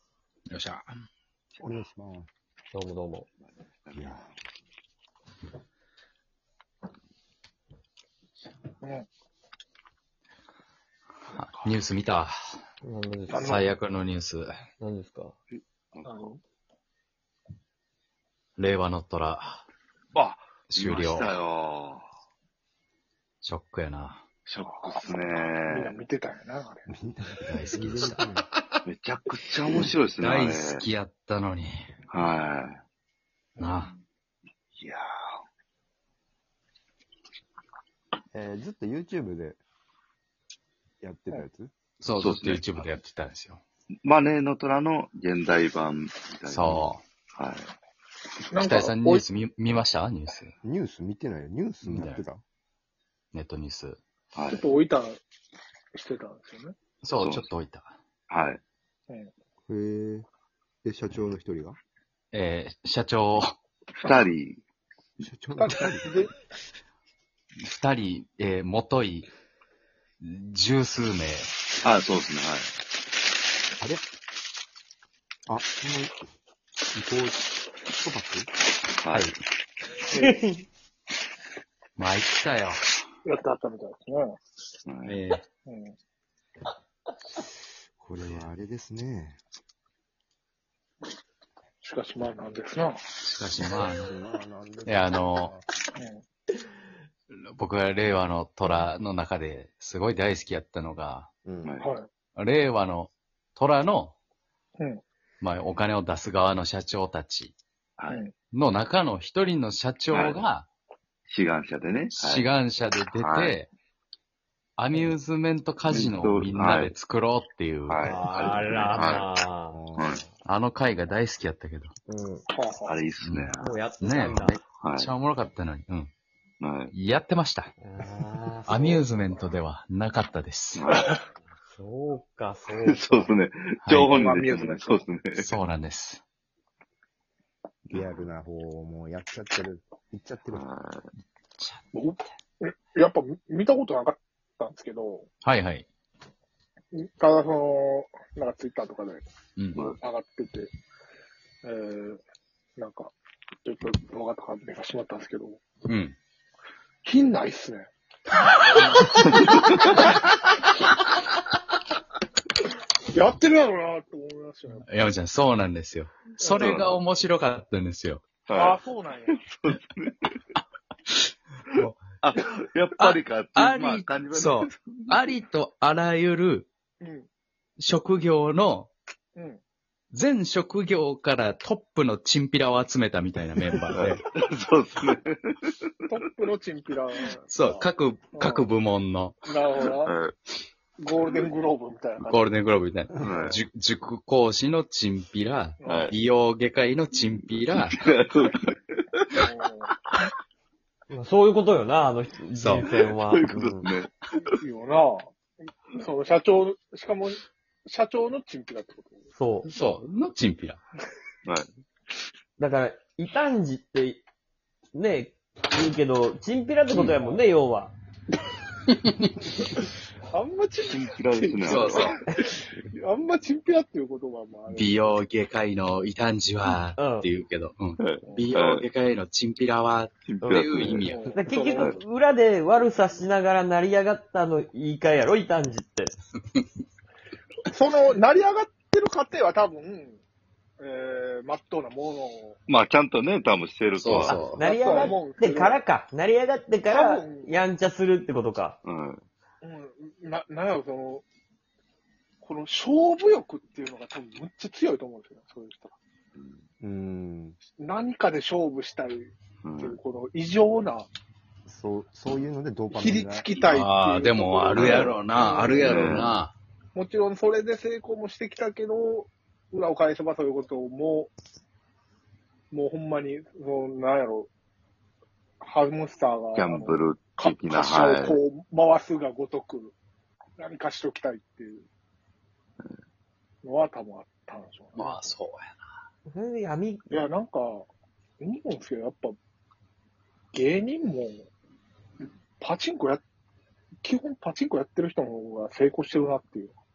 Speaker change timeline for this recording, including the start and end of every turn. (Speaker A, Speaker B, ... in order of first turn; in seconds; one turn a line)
Speaker A: 0.5-0.9
Speaker B: 1.6-2.3
Speaker C: 2.7-3.3
Speaker D: 3.9-4.1
Speaker B: 3.9-4.3
Speaker E: 8.8-9.1
Speaker A: 11.3-12.3
Speaker C: 12.8-13.4
Speaker E: 13.3-13.7
Speaker A: 13.4-14.6
Speaker C: 14.8-15.3
Speaker E: 16.0-16.4
Speaker A: 18.6-19.6
Speaker D: 20.1-22.1
Speaker A: 20.7-21.4
Speaker A: 23.4-24.2
Speaker D: 24.5-26.0
Speaker E: 24.6-26.8
Speaker B: 26.9-28.5
Speaker A: 27.5-28.3
Speaker D: 28.9-30.8
Speaker A: 30.2-31.9
Speaker D: 32.1-32.8
Speaker A: 33.6-33.9
Speaker D: 34.8-35.2
Speaker B: 38.3-39.6
Speaker B: 41.0-41.7
Speaker A: 42.0-43.6
Speaker D: 42.2-42.9
Speaker D: 44.0-47.7
Speaker A: 46.5-47.0
Speaker E: 48.5-49.2
Speaker A: 48.5-50.5
Speaker B: 50.6-52.4
Speaker A: 51.8-52.2
Speaker A: 53.3-54.0
Speaker D: 54.3-54.7
Speaker E: 54.5-55.2
Speaker E: 55.9-56.7
Speaker A: 57.0-57.9
Speaker D: 57.2-57.5
Speaker D: 58.3-58.6
Speaker B: 59.7-60.3
Speaker B: 60.8-61.8
Speaker A: 62.3-63.5
Speaker D: 64.0-64.6
Speaker B: 65.2-66.2
Speaker E: 65.6-66.3
Speaker A: 67.6-69.3
Speaker A: 70.2-71.5
Speaker D: 71.8-72.7
Speaker B: 73.8-74.0
Speaker B: 75.5-76.2
Speaker B: 76.9-78.5
Speaker D: 79.0-79.3
Speaker A: 79.1-79.4
Speaker E: 80.1-80.4
Speaker A: 82.0-83.0
Speaker E: 83.2-84.3
Speaker D: 84.8-85.2
Speaker A: 85.0-85.4
Speaker E: 85.7-85.9
Speaker B: 88.0-89.4
Speaker E: 91.8-93.0
Speaker A: 93.2-94.1
Speaker B: 93.7-95.6
Speaker A: 94.8-95.5
Speaker E: 96.0-96.2
Speaker A: 97.3-101.3
Speaker B: 101.4-101.7
Speaker E: 101.8-102.1
Speaker A: 102.3-104.1
Speaker A: 105.4-107.5
Speaker D: 108.0-108.2
Speaker A: 108.5-110.7
Speaker D: 110.1-110.5
Speaker D: 111.3-112.5
Speaker A: 112.1-113.7
Speaker D: 113.1-113.6
Speaker A: 114.8-119.2
Speaker D: 115.9-116.9
Speaker D: 117.9-119.3
Speaker C: 118.0-119.8
Speaker B: 119.7-120.3
Speaker D: 120.0-120.2
Speaker A: 120.4-121.9
Speaker C: 122.1-122.5
Speaker E: 122.5-122.9
Speaker D: 122.8-123.8
Speaker A: 123.2-126.1
Speaker C: 123.6-124.6
Speaker D: 124.8-125.1
Speaker D: 126.6-126.9
Speaker A: 126.9-127.7
Speaker C: 127.8-129.1
Speaker A: 128.7-130.9
Speaker D: 130.7-131.2
Speaker C: 131.7-133.3
Speaker D: 132.7-135.5
Speaker A: 133.8-134.2
Speaker E: 134.0-135.1
Speaker A: 135.4-136.2
Speaker D: 137.9-138.3
Speaker B: 137.9-140.6
Speaker D: 140.5-141.1
Speaker E: 141.9-145.3
Speaker A: 145.4-145.9
Speaker E: 146.9-149.2
Speaker A: 149.6-149.8
Speaker E: 149.8-150.7
Speaker E: 151.6-152.2
Speaker E: 152.8-153.1
Speaker E: 153.6-155.6
Speaker A: 155.8-156.2
Speaker E: 157.0-157.9
Speaker D: 159.3-159.8
Speaker E: 163.1-164.8
Speaker A: 164.8-168.2
Speaker E: 166.4-166.8
Speaker D: 166.5-167.0
Speaker D: 168.4-170.3
Speaker E: 168.5-169.4
Speaker A: 171.7-172.0
Speaker D: 171.8-175.3
Speaker A: 173.0-176.7
Speaker E: 177.0-177.3
Speaker A: 177.8-178.9
Speaker A: 180.1-184.2
Speaker D: 183.9-186.3
Speaker E: 186.1-188.7
Speaker A: 187.5-189.4
Speaker E: 189.5-190.1
Speaker D: 189.9-190.3
Speaker E: 191.0-192.5
Speaker A: 192.2-198.0
Speaker D: 193.2-193.6
Speaker E: 195.8-196.1
Speaker D: 195.8-196.2
Speaker D: 197.3-199.4
Speaker E: 199.4-199.9
Speaker C: 201.1-203.5
Speaker A: 202.5-202.9
Speaker D: 202.8-204.5
Speaker B: 203.5-203.9
Speaker E: 204.6-205.2
Speaker E: 205.9-209.2
Speaker C: 209.3-209.7
Speaker A: 209.7-210.8
Speaker C: 212.6-214.2
Speaker C: 214.9-217.9
Speaker A: 216.9-217.2
Speaker E: 219.7-225.2
Speaker D: 220.8-222.2
Speaker A: 221.6-222.2
Speaker A: 224.7-231.2
Speaker C: 227.0-227.3
Speaker D: 228.0-228.8
Speaker E: 228.2-228.5
Speaker D: 230.2-231.2
Speaker C: 230.4-236.1
Speaker E: 231.1-232.0
Speaker E: 237.7-240.2
Speaker E: 240.8-242.6
Speaker D: 242.7-244.5
Speaker A: 244.0-244.6
Speaker C: 244.2-248.8
Speaker E: 244.5-245.8
Speaker E: 246.9-247.6
Speaker D: 248.8-249.2
Speaker E: 249.6-251.2
Speaker E: 252.4-255.9
Speaker D: 256.3-256.6
Speaker B: 256.8-257.6
Speaker E: 257.8-261.1
Speaker D: 259.6-260.0
Speaker B: 261.7-263.5
Speaker E: 262.9-266.1
Speaker A: 263.5-266.5
Speaker D: 264.7-266.4
Speaker E: 266.9-271.3
Speaker E: 272.7-274.5
Speaker E: 275.6-279.9
Speaker D: 276.5-278.4
Speaker E: 280.6-281.9
Speaker E: 283.6-285.3
Speaker A: 284.9-285.8
Speaker C: 286.3-287.2
Speaker E: 287.1-287.8
Speaker E: 288.4-289.3
Speaker E: 290.5-291.5
Speaker E: 292.6-293.2
Speaker E: 294.0-296.7